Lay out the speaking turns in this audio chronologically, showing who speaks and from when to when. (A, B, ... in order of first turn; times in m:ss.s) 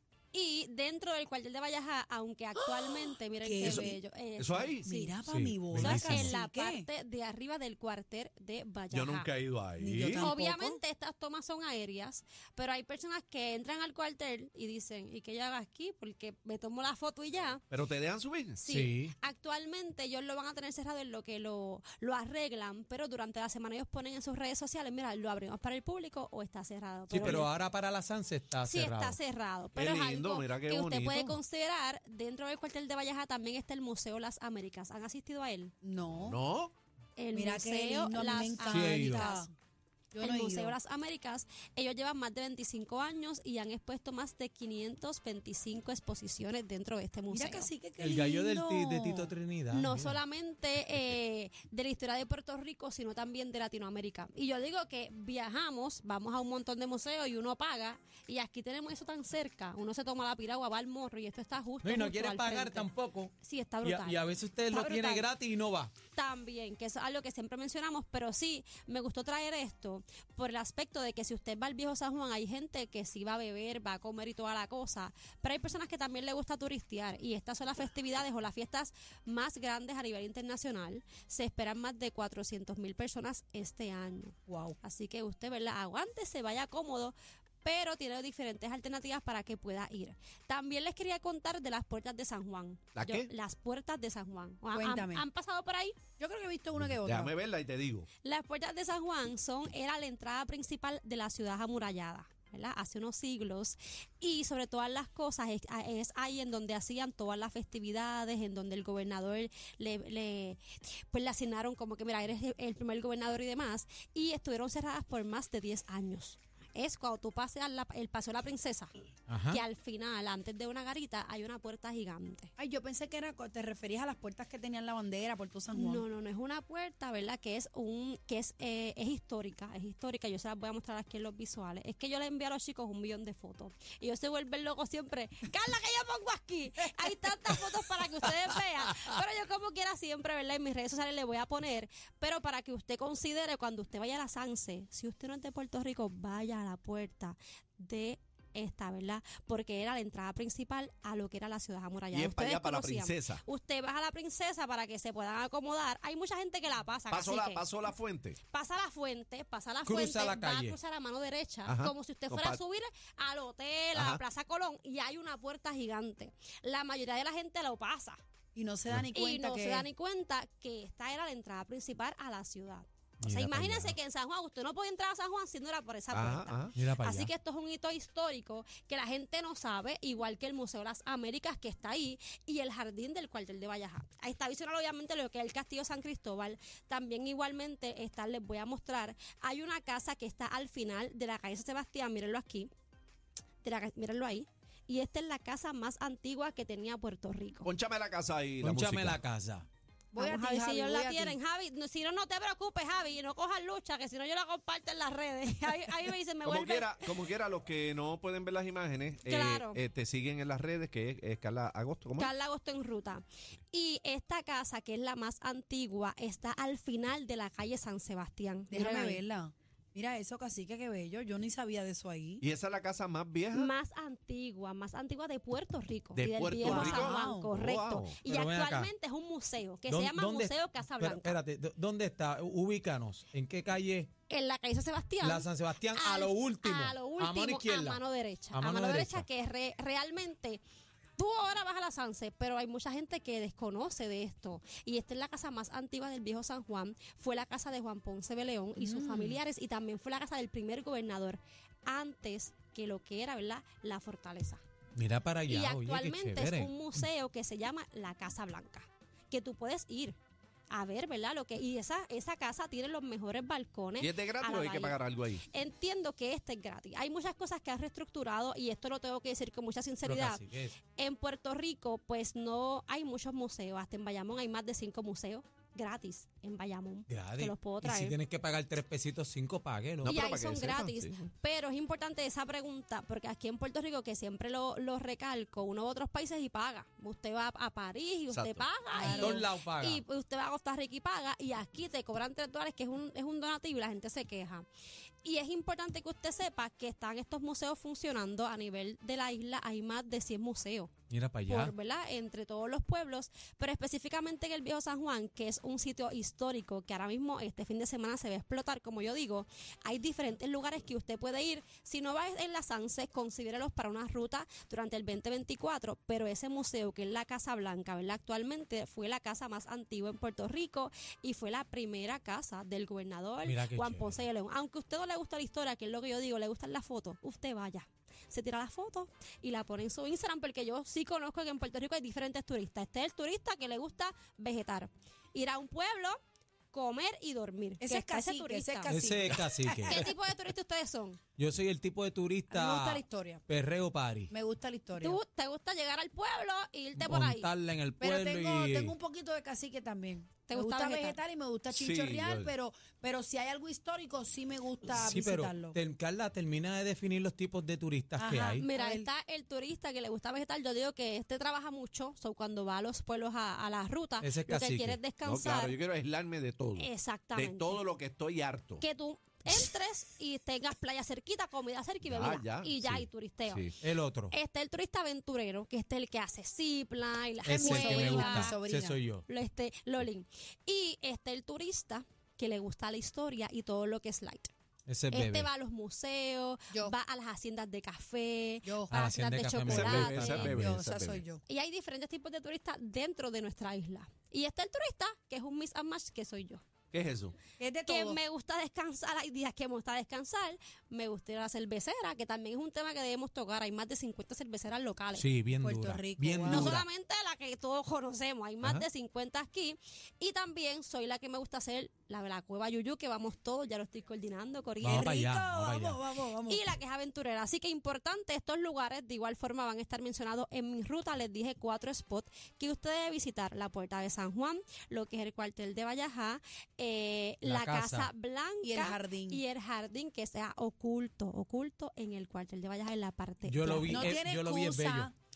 0:00.3-0:05.2 A
0:03.4-0:04.0 B
0:03.6-0:04.8 C
0:04.8-0:06.9 B
0:05.2-0:06.4 D
0:05.7-0:09.3 A
0:08.9-0:10.3 C
0:09.8-0:10.8 B
0:10.2-0:17.6 A
0:17.7-0:18.6 C
0:18.6-0:27.5 A
0:18.6-0:19.1 D
0:27.1-0:29.2 D
0:28.6-0:35.7 A
0:29.7-0:31.4 C
0:35.8-0:36.4 B
0:36.2-0:36.7 C
0:37.2-0:39.5 A
0:37.3-0:39.5 B
0:38.7-0:39.3 D
0:40.1-0:40.7 B
0:40.2-0:47.7 A
0:47.3-0:49.3 B
0:48.0-0:50.2 D
0:49.7-1:02.9 A
1:01.8-1:05.9 D
1:03.4-1:05.3 A
1:06.1-1:36.0 A
1:24.5-1:24.8 B
1:32.9-1:33.3 C
1:34.7-1:35.2 B
1:36.2-1:37.3 B
1:36.8-1:38.1 C
1:38.2-1:58.9 A
1:59.3-1:59.6 D
1:59.5-2:02.5 A
2:02.6-2:06.0 B
2:05.7-2:37.7 A
2:32.1-2:33.4 C
2:37.1-2:38.4 C
2:38.5-2:48.2 A
2:39.8-2:40.8 D
2:41.6-2:42.6 C
2:43.9-2:44.2 C
2:48.5-2:49.9 B
2:49.1-3:12.7 A
2:53.2-2:54.0 D
2:56.1-2:56.7 C
2:56.7-2:57.3 D
3:13.6-3:17.7 A
3:17.6-3:19.2 C
3:18.6-3:19.7 D
3:20.1-3:21.4 B
3:20.2-3:27.1 A
3:26.4-3:32.3 C
3:29.2-3:29.8 A
3:32.2-3:39.2 A
3:38.7-3:42.4 B
3:42.4-3:43.7 C
3:43.5-3:51.4 A
3:46.1-3:48.2 C
3:46.6-3:47.5 B
3:48.2-3:48.9 D
3:49.8-3:54.1 D
3:54.3-4:00.6 A
3:55.2-3:59.3 D
4:01.2-4:14.6 A
4:08.8-4:09.4 D
4:15.0-4:17.0 D
4:15.5-4:20.2 A
4:20.7-4:38.2 A
4:24.0-4:25.4 C
4:30.0-4:30.8 D
4:37.1-4:40.2 D
4:40.0-4:41.3 C
4:40.0-4:54.6 A
4:48.3-4:48.6 C
4:48.9-4:49.4 B
4:49.0-4:50.0 D
4:55.2-5:00.9 A
5:01.1-5:01.7 D
5:01.4-5:36.2 A
5:23.4-5:24.2 D
5:36.7-5:38.9 A
5:37.8-5:40.1 B
5:38.8-5:40.0 D
5:39.8-5:41.2 A
5:41.4-5:44.3 D
5:42.5-5:43.4 B
5:44.3-5:45.2 B
5:45.0-5:47.5 A
5:47.0-5:49.0 D
5:48.0-5:55.8 B
5:50.5-5:51.2 A
5:51.7-5:52.5 C
5:54.9-5:58.7 D
5:58.2-5:59.1 B
5:58.6-6:05.7 A
6:04.2-6:05.0 D
6:05.2-6:08.8 C
6:06.8-6:07.8 A
6:08.8-6:13.7 A
6:12.0-6:13.7 C
6:13.8-6:14.3 D
6:14.3-6:18.6 A
6:17.4-6:19.2 D
6:17.5-6:19.0 B
6:19.3-6:24.5 A
6:24.9-6:25.5 D
6:25.1-6:30.5 A
6:28.6-6:29.0 B
6:28.9-6:30.6 D
6:29.6-6:31.2 C
6:30.5-6:31.4 B
6:31.5-6:36.6 A
6:36.9-6:37.3 C
6:37.6-6:38.2 B
6:37.8-6:45.3 A
6:45.1-6:46.9 D
6:45.6-6:46.7 B
6:46.5-6:55.1 A
6:48.6-6:48.9 C
6:54.8-6:56.0 D
6:54.8-6:56.6 B
6:56.4-7:14.2 A
7:07.4-7:08.1 D
7:08.6-7:09.4 B
7:13.4-7:15.1 D
7:13.9-7:15.1 B